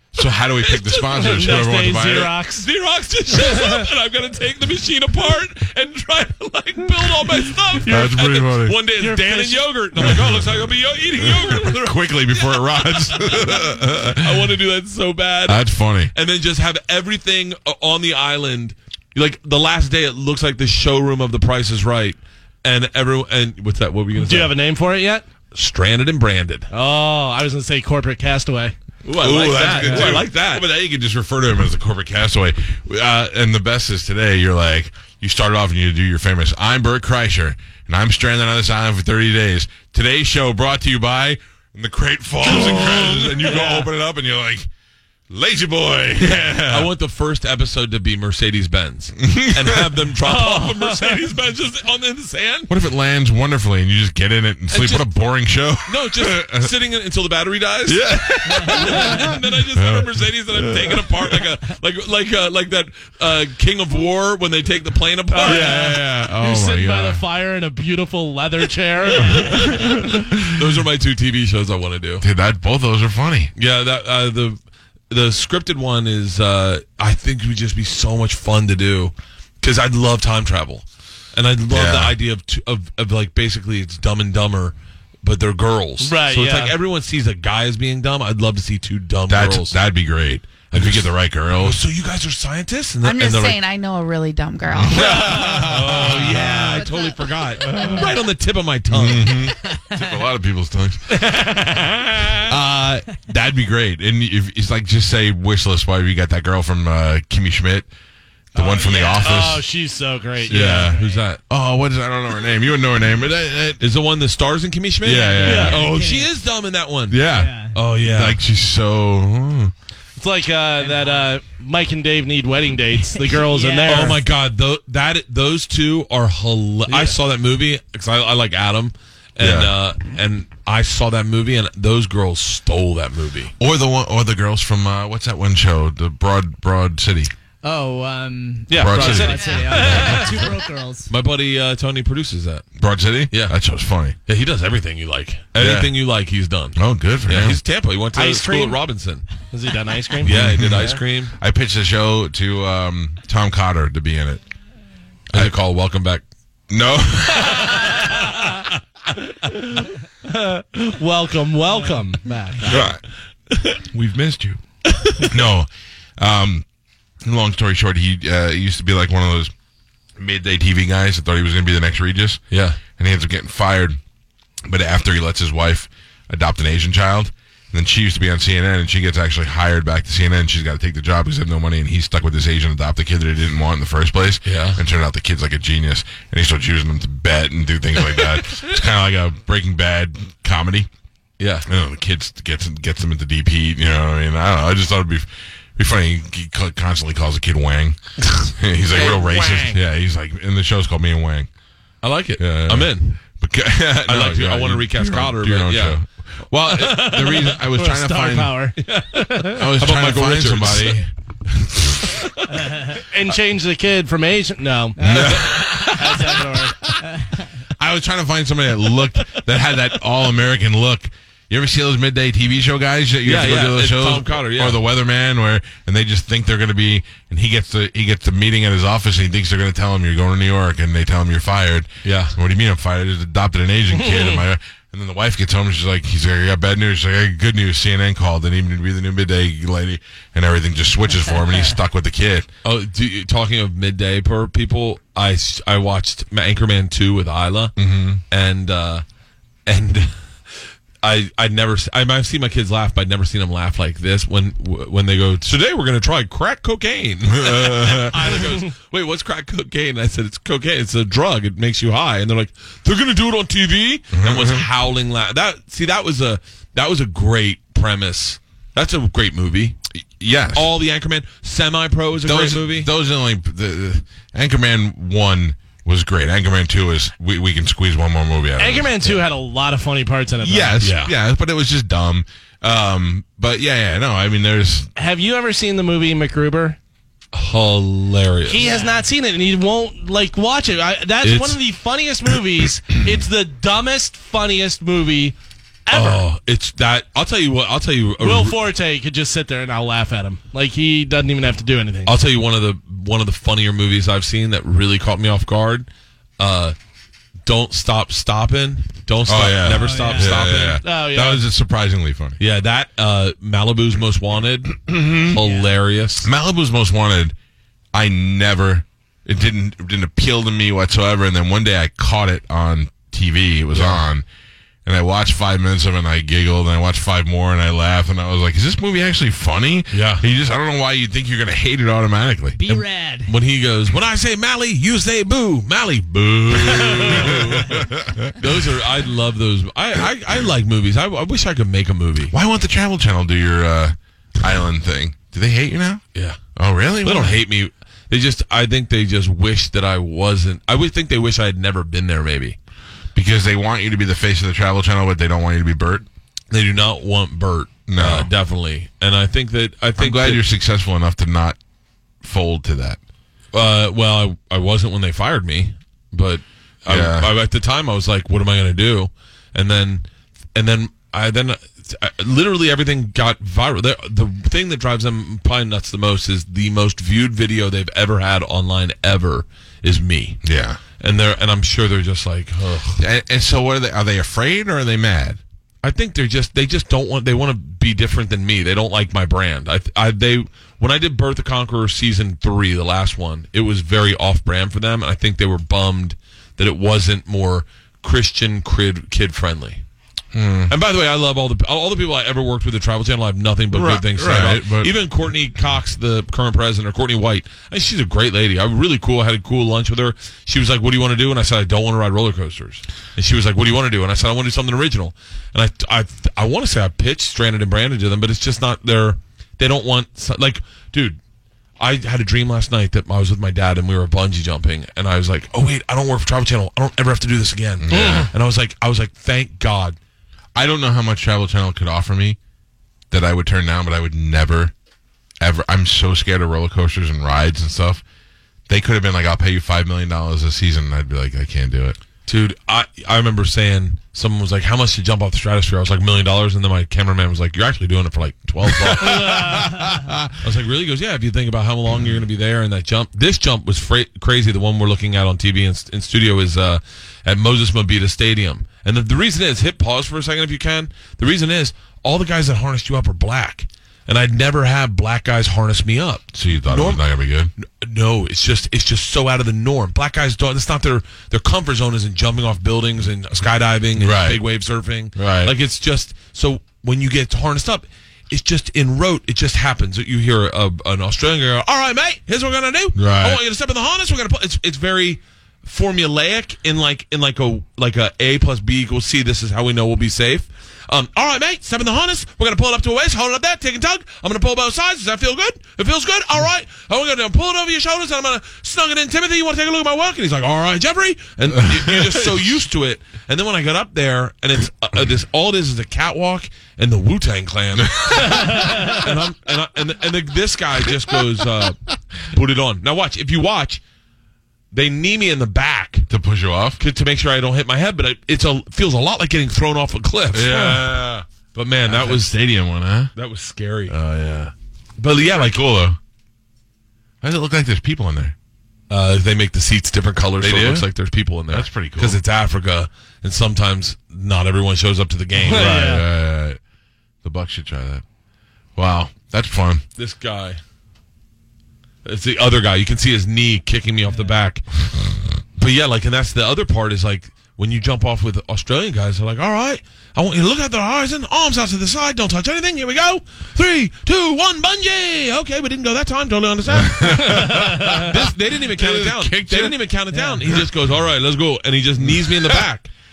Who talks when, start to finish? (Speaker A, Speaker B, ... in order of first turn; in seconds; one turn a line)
Speaker A: 0.1-2.3
Speaker B: 0.7-2.7
Speaker C: 1.2-1.6
Speaker C: 2.5-24.5
Speaker B: 3.4-3.8
Speaker A: 7.8-8.8
Speaker B: 8.9-10.2
Speaker A: 10.0-10.5
Speaker A: 11.2-14.5
Speaker A: 15.5-16.1
Speaker B: 24.2-25.2
Speaker C: 25.5-26.7
Speaker B: 26.7-30.2
Speaker C: 29.1-30.7
Speaker A: 29.2-44.7
Speaker C: 42.4-43.8
Speaker B: 42.5-43.8
Speaker A: 45.3-46.9
Speaker C: 46.2-52.7
Speaker A: 49.2-50.0
Speaker B: 50.3-51.2
Speaker A: 52.7-56.7
Speaker C: 54.7-55.1
Speaker C: 55.8-65.8
Speaker A: 57.9-61.5
Speaker B: 65.3-70.0
Speaker A: 65.4-67.2
Speaker A: 69.2-70.7
Speaker C: 69.2-72.2
Speaker A: 72.2-73.5
Speaker C: 73.5-74.6
Speaker C: 75.1-89.8
Speaker A: 81.7-82.2
Speaker B: 86.0-86.8
Speaker A: 89.3-91.8
Speaker C: 90.7-93.6
Speaker D: 93.0-95.7
Speaker A: 94.7-96.7
Speaker C: 94.8-99.5
Speaker A: 97.6-98.1
Speaker A: 98.9-101.1
Speaker B: 101.2-102.0
Speaker C: 101.7-102.5
Speaker A: 102.5-107.9
Speaker A: 108.5-109.7
Speaker B: 108.5-111.2
Speaker A: 110.5-113.8
Speaker C: 110.5-111.4
Speaker C: 113.8-117.2
Speaker A: 115.0-115.9
Speaker E: 115.1-116.3
Speaker B: 115.4-115.8
Speaker A: 117.1-119.7
Speaker E: 117.2-117.8
Speaker C: 117.7-118.4
Speaker B: 120.2-124.2
Speaker E: 120.8-121.3
Speaker E: 123.1-124.2
Speaker C: 123.8-133.5
Speaker B: 126.9-127.2
Speaker A: 129.4-129.7
Speaker A: 133.6-137.3
Speaker E: 137.6-141.1
Speaker C: 138.7-140.5
Speaker A: 138.8-140.4
Speaker B: 138.8-140.5
Speaker C: 141.1-142.7
Speaker A: 142.8-144.2
Speaker C: 143.3-143.6
Speaker C: 144.3-149.3
Speaker A: 145.6-145.9
Speaker A: 146.8-147.6
Speaker B: 148.1-148.8
Speaker B: 149.5-151.0
Speaker C: 150.2-151.3
Speaker A: 150.2-154.4
Speaker C: 155.3-156.2
Speaker A: 156.7-158.1
Speaker B: 159.8-162.9
Speaker A: 162.6-163.0
Speaker A: 163.9-164.6
Speaker A: 165.2-166.6
Speaker A: 167.2-169.5
Speaker A: 170.2-172.4
Speaker C: 172.5-172.8
Speaker A: 172.9-174.0
Speaker A: 174.7-190.9
Speaker C: 184.4-184.8
Speaker C: 191.4-191.7
Speaker A: 191.6-201.5
Speaker C: 198.9-199.7
Speaker B: 199.3-199.6
Speaker C: 202.0-203.2
Speaker A: 202.4-208.6
Speaker C: 204.1-206.0
Speaker B: 206.7-209.7
Speaker A: 209.5-212.1
Speaker C: 209.7-211.0
Speaker C: 212.1-212.7
Speaker B: 212.8-216.8
Speaker A: 215.0-216.0
Speaker E: 215.0-215.3
Speaker C: 215.1-216.3
Speaker A: 217.8-242.5
Speaker C: 223.2-224.9
Speaker C: 232.0-232.3
Speaker B: 234.0-234.3
Speaker C: 242.6-247.7
Speaker A: 247.8-248.2
Speaker C: 248.3-249.0
Speaker C: 249.7-250.1
Speaker C: 251.0-269.8
Speaker A: 257.3-258.5
Speaker B: 258.3-258.6
Speaker A: 264.1-264.7
Speaker A: 269.9-270.7
Speaker C: 270.5-272.9
Speaker A: 272.2-279.2
Speaker B: 278.6-281.0
Speaker A: 280.4-284.9
Speaker C: 280.8-281.1
Speaker B: 284.9-286.8
Speaker C: 287.3-288.6
Speaker B: 288.4-295.4
Speaker C: 291.2-291.6
Speaker B: 295.9-296.2
Speaker C: 295.9-298.6
Speaker B: 298.2-302.1
Speaker C: 302.1-305.9
Speaker C: 306.4-306.8
Speaker C: 307.4-310.8
Speaker A: 309.2-312.4
Speaker E: 309.7-310.5
Speaker B: 310.8-311.4
Speaker C: 312.4-316.3
Speaker A: 314.9-315.4
Speaker A: 316.2-317.3
Speaker A: 317.9-324.2
Speaker C: 323.7-324.0
Speaker A: 324.8-332.6
Speaker C: 329.9-330.2
Speaker E: 332.6-333.3
Speaker C: 332.7-342.3
Speaker A: 336.5-338.5
Speaker A: 342.3-346.0
Speaker C: 346.1-346.4
Speaker A: 346.6-347.4
Speaker C: 347.0-352.6
Speaker A: 353.1-356.0
Speaker C: 356.5-360.4
Speaker A: 357.9-358.3
Speaker A: 360.0-361.6
Speaker A: 362.2-363.0
Speaker C: 363.5-380.4
Speaker A: 366.9-367.3
Speaker A: 380.4-380.8
Speaker C: 381.0-383.0
Speaker A: 383.0-385.4
Speaker C: 385.8-399.8
Speaker A: 400.3-400.7
Speaker C: 400.7-421.2
Speaker A: 403.7-404.9
Speaker C: 421.8-430.0
Speaker A: 427.8-428.3
Speaker B: 427.9-428.3
Speaker A: 430.5-432.4
Speaker A: 433.1-434.7
Speaker A: 435.4-438.0
Speaker A: 438.7-442.0
Speaker C: 442.2-449.6
Speaker A: 448.6-450.3
Speaker C: 450.4-467.0
Speaker A: 466.3-467.5
Speaker C: 467.6-511.8
Speaker A: 473.9-474.4
Speaker A: 475.1-475.5
Speaker A: 482.9-483.4
Speaker A: 501.5-502.6
Speaker A: 507.8-509.0
Speaker C: 512.3-513.8
Speaker C: 514.7-516.1
Speaker A: 516.1-516.8
Speaker C: 516.8-520.9
Speaker A: 520.3-521.2
Speaker C: 521.5-522.4
Speaker A: 521.8-523.1
Speaker C: 523.1-524.0
Speaker A: 523.9-524.5
Speaker C: 525.0-525.6
Speaker A: 525.3-526.0
Speaker A: 527.2-528.3
Speaker C: 528.9-536.0
Speaker A: 530.4-530.9
Speaker A: 531.5-532.2
Speaker B: 535.4-536.0
Speaker A: 535.5-536.6
Speaker A: 537.2-538.0
Speaker A: 538.8-539.8
Speaker C: 540.0-540.6
Speaker C: 542.0-544.6
Speaker C: 545.6-562.9
Speaker A: 556.7-559.8
Speaker B: 557.4-558.0
Speaker A: 562.0-562.6